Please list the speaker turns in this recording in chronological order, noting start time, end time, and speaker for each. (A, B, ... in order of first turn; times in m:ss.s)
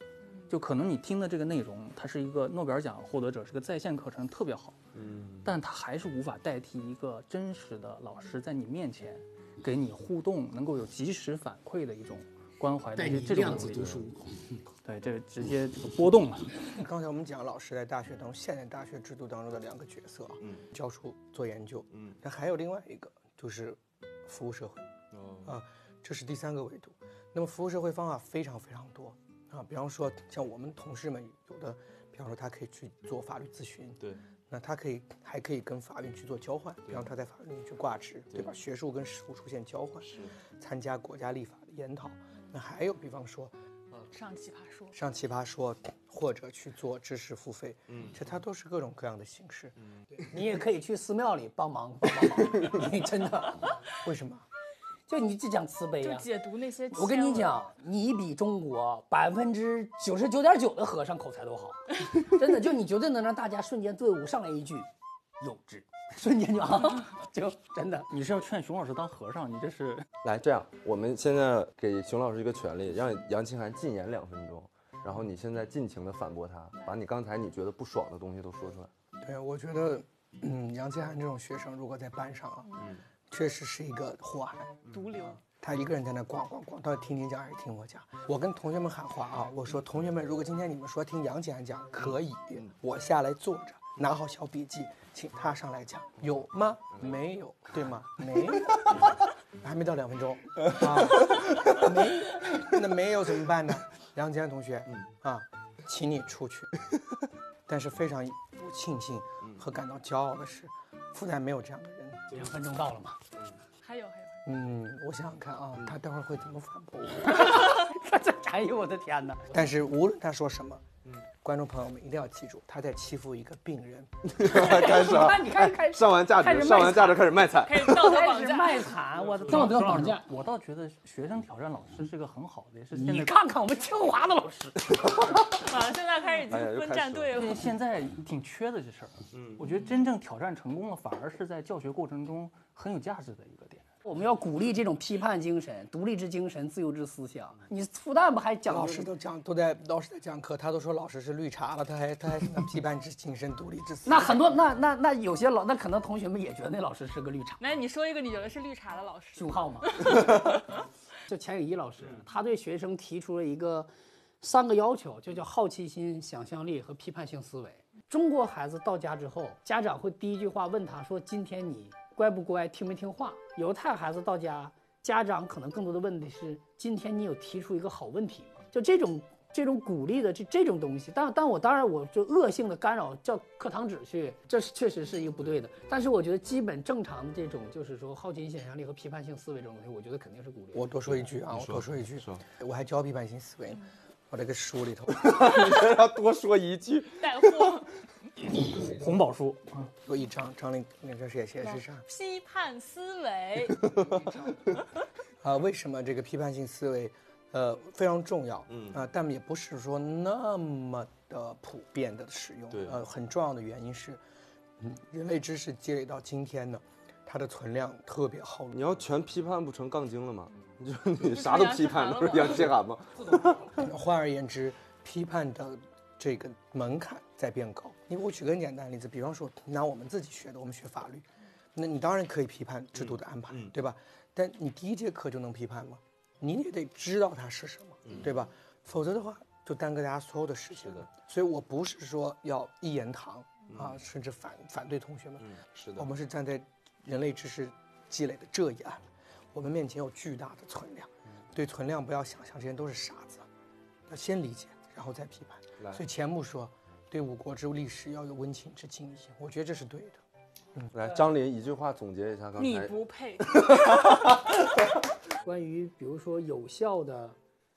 0:00.2-0:00.5 A
0:00.5-0:04.8 B
0:04.9-0:05.5 C
0:05.4-0:13.9 B
0:13.0-0:14.6 D
0:13.5-0:14.1 C
0:14.8-0:16.6 B
0:16.7-0:24.9 E
0:21.9-0:22.2 C
0:25.1-0:25.5 C
0:25.4-0:43.5 E
0:40.0-0:40.3 C
0:44.1-0:44.9 A
0:44.9-0:49.7 E
0:47.9-0:48.2 C
0:50.3-0:53.8 D
0:54.0-0:54.4 E
0:55.1-0:56.3 D
0:56.0-0:57.6 A
0:56.9-1:08.1 D
1:08.1-1:10.1 B
1:10.2-1:18.9 C
1:19.2-1:22.8 E
1:23.3-1:24.8 E
1:24.9-1:25.4 A
1:25.4-1:46.7 E
1:32.1-1:32.7 C
1:40.7-1:41.8 C
1:47.7-1:52.4 E
1:52.3-1:53.2 D
1:53.8-1:54.4 A
1:54.4-1:57.7 E
1:57.3-1:59.5 D
1:59.5-2:00.8 E
2:01.4-2:04.5 E
2:04.2-2:08.1 C
2:04.4-2:10.2 D
2:07.6-2:09.0 A
2:09.2-2:09.7 C
2:09.5-2:13.4 B
2:12.9-2:14.9 D
2:15.1-2:15.4 C
2:15.5-2:17.6 A
2:16.5-2:17.3 C
2:17.3-2:23.9 B
2:19.3-2:19.6 C
2:24.0-2:29.1 D
2:28.7-2:34.6 E
2:34.0-2:37.6 D
2:37.6-2:40.8 A
2:39.3-2:40.6 D
2:41.3-2:43.9 D
2:44.4-3:11.2 D
3:10.7-3:15.4 E
3:11.5-3:12.4 C
3:15.2-3:17.8 C
3:17.2-3:17.9 A
3:18.7-3:19.9 B
3:20.0-3:22.0 E
3:21.6-3:23.9 A
3:23.8-3:24.7 C
3:25.4-3:34.2 E
3:28.7-3:29.0 C
3:32.7-3:33.0 C
3:34.8-3:38.9 E
3:38.7-3:43.9 C
3:41.2-3:42.7 A
3:43.7-4:13.5 E
3:52.9-3:53.7 C
3:58.1-3:58.3 C
4:03.7-4:04.0 C
4:05.4-4:06.1 C
4:14.1-4:20.2 E
4:20.9-4:24.9 C
4:22.6-4:24.2 A
4:25.4-4:27.4 D